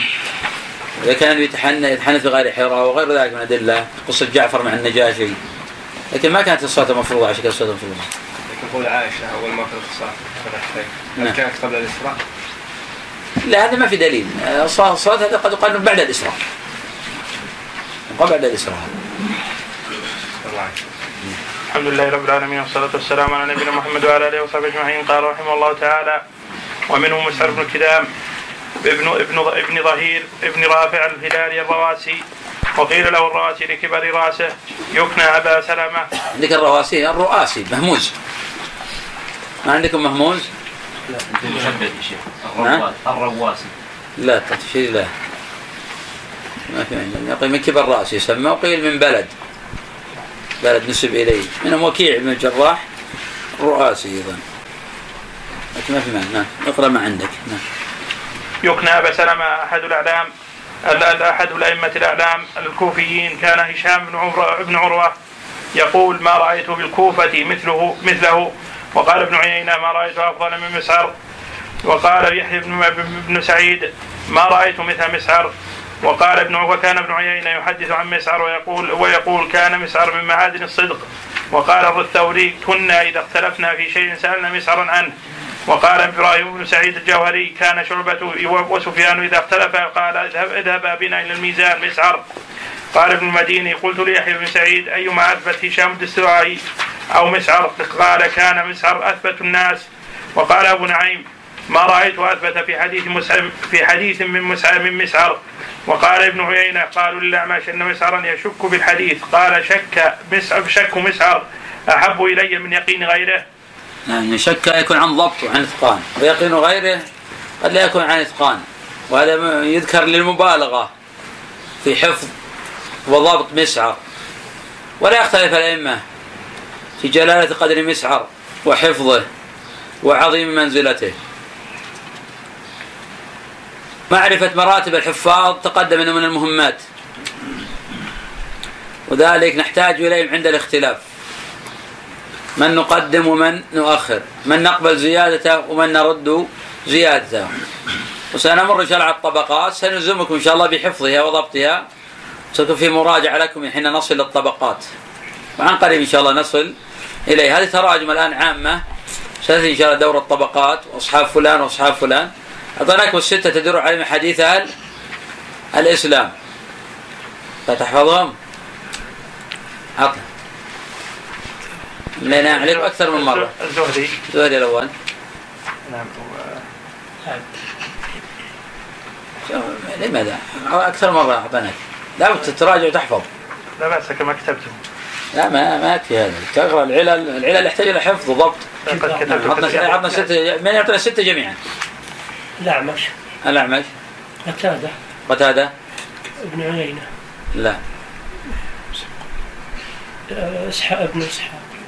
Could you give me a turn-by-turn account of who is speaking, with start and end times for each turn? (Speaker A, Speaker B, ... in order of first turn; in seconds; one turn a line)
Speaker A: 1.0-5.4
Speaker A: 6.1-8.1
Speaker B: 8.5-12.2
Speaker A: 13.4-16.4
Speaker A: 18.1-18.9
Speaker B: 20.4-20.8
Speaker C: 21.7-26.2
Speaker C: 26.9-28.1
Speaker C: 28.8-32.2
Speaker C: 32.8-36.1
Speaker A: 36.3-38.1
Speaker A: 39.6-40.5
Speaker D: 41.3-43.7
Speaker A: 42.6-42.8
Speaker A: 44.2-45.1
Speaker A: 46.7-49.3
Speaker A: 50.6-52.8
Speaker A: 53.6-54.4
Speaker A: 55.7-57.6
Speaker C: 58.6-60.3
Speaker C: 60.8-65.1
Speaker C: 65.7-71.1
Speaker C: 71.8-85.1
Speaker C: 85.7-92.2
Speaker C: 92.9-96.6
Speaker C: 97.1-113.4
Speaker A: 114.1-117.0
Speaker A: 117.6-120.9
Speaker A: 121.8-122.3
Speaker A: 123.1-124.0
Speaker A: 125.0-126.0
Speaker A: 127.0-129.3
Speaker A: 130.0-131.2
Speaker A: 134.1-136.8
Speaker A: 139.1-141.0
Speaker A: 142.6-147.5
Speaker A: 148.3-151.8
Speaker A: 152.5-154.9
Speaker A: 155.6-156.7
Speaker A: 157.3-158.8
Speaker A: 159.4-164.7
Speaker A: 165.7-166.3
Speaker A: 167.7-168.3
Speaker A: 170.0-170.2
Speaker A: 172.2-173.5
Speaker C: 172.2-174.2
Speaker A: 174.3-174.9
Speaker C: 175.9-176.6
Speaker A: 179.4-183.3
Speaker C: 183.8-184.8
Speaker A: 185.3-188.7
Speaker C: 188.8-190.2
Speaker E: 188.9-189.9
Speaker A: 189.2-191.6
Speaker E: 192.6-193.1
Speaker A: 193.4-193.9
Speaker E: 194.4-194.9
Speaker A: 195.3-195.7
Speaker E: 196.4-197.1
Speaker A: 197.5-197.8
Speaker E: 200.3-201.6